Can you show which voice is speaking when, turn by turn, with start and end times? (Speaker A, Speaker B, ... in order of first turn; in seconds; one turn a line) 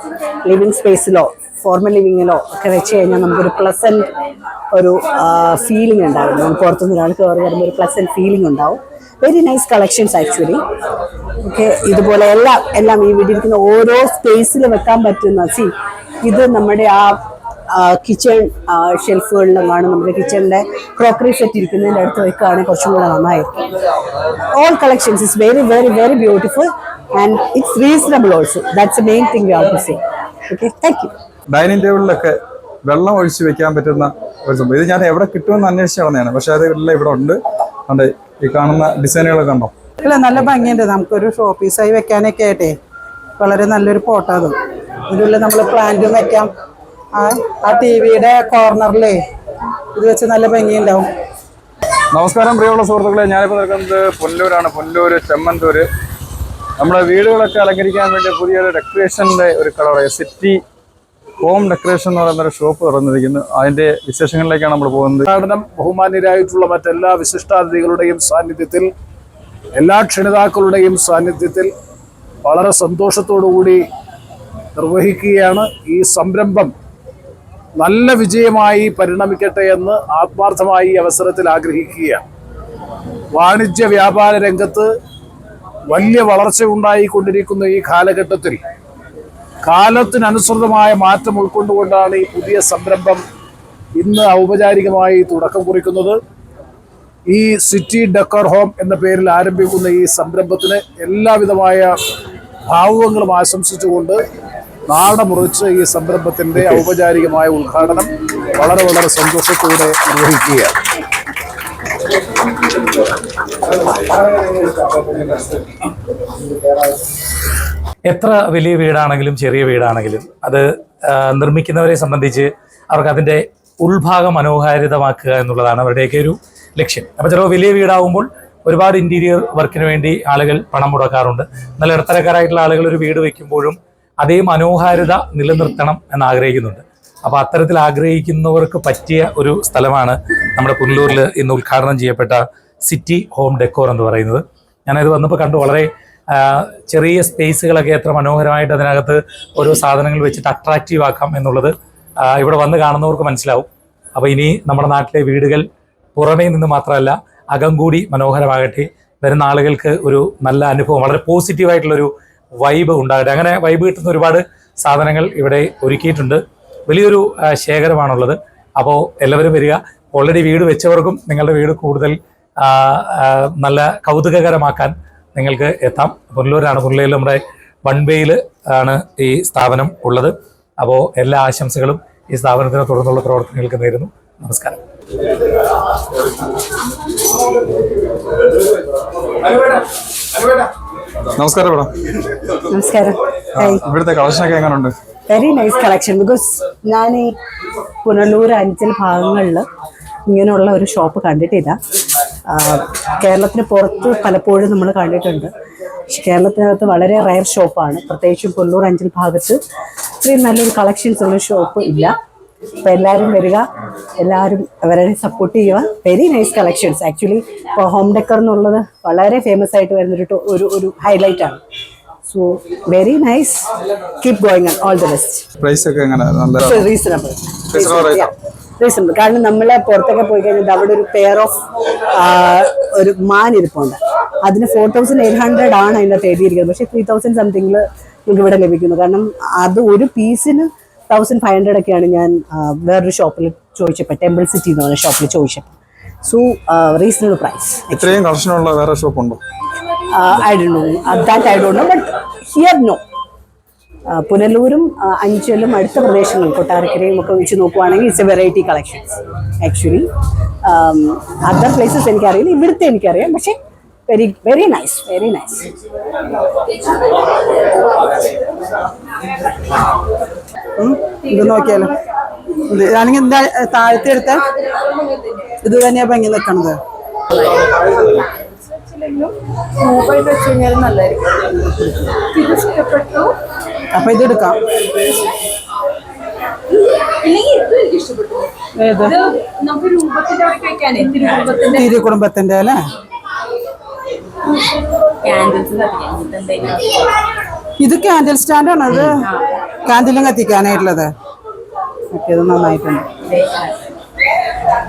Speaker A: 0.5-4.1
Speaker A: 4.7-10.6
Speaker A: 11.4-15.7
Speaker A: 16.2-17.1
Speaker A: 17.7-23.6
Speaker A: 24.5-31.1
Speaker B: 31.5-32.4
Speaker B: 32.9-39.7
Speaker C: 40.0-42.8
Speaker C: 43.4-44.6
Speaker C: 45.1-46.5
Speaker C: 47.1-49.2
Speaker C: 50.0-51.1
Speaker B: 52.1-55.9
Speaker B: 56.8-60.6
Speaker B: 61.4-65.3
Speaker D: 65.3-68.9
Speaker D: 69.8-71.7
Speaker D: 72.5-73.8
Speaker D: 74.8-76.7
Speaker D: 77.8-82.2
Speaker D: 83.4-84.9
Speaker D: 85.9-88.6
Speaker D: 89.7-93.2
Speaker D: 94.0-96.2
Speaker D: 97.3-101.9
Speaker D: 102.7-104.2
Speaker D: 104.9-110.8
Speaker E: 118.1-151.7
Speaker E: 152.2-155.6
Speaker E: 156.2-184.8
Speaker B: 191.4-191.9
Speaker A: 192.7-193.9
Speaker B: 193.6-194.9
Speaker A: 195.3-197.3
Speaker A: 198.0-199.7
Speaker A: 200.3-201.8
Speaker A: 202.5-205.5
Speaker A: 206.1-209.6
Speaker A: 210.2-212.1
Speaker A: 212.8-213.7
Speaker A: 214.2-221.6
Speaker A: 222.3-223.7
Speaker A: 224.2-225.4
Speaker B: 225.6-226.8
Speaker A: 226.6-231.6
Speaker B: 227.7-228.3
Speaker A: 232.1-245.7
Speaker A: 246.2-248.2
Speaker B: 247.9-249.4
Speaker A: 250.1-253.0
Speaker A: 254.1-260.1
Speaker A: 260.7-263.6
Speaker A: 264.1-265.7
Speaker C: 270.8-271.9
Speaker F: 271.3-271.9
Speaker C: 272.7-274.4
Speaker C: 275.6-276.8
Speaker F: 277.5-281.3
Speaker F: 282.2-283.3
Speaker C: 283.9-284.6
Speaker F: 287.2-288.5
Speaker C: 288.8-289.1
Speaker F: 289.0-292.0
Speaker C: 291.8-292.9
Speaker F: 295.2-296.9
Speaker C: 297.8-299.1
Speaker C: 299.9-301.1
Speaker C: 302.1-303.1
Speaker F: 303.4-303.7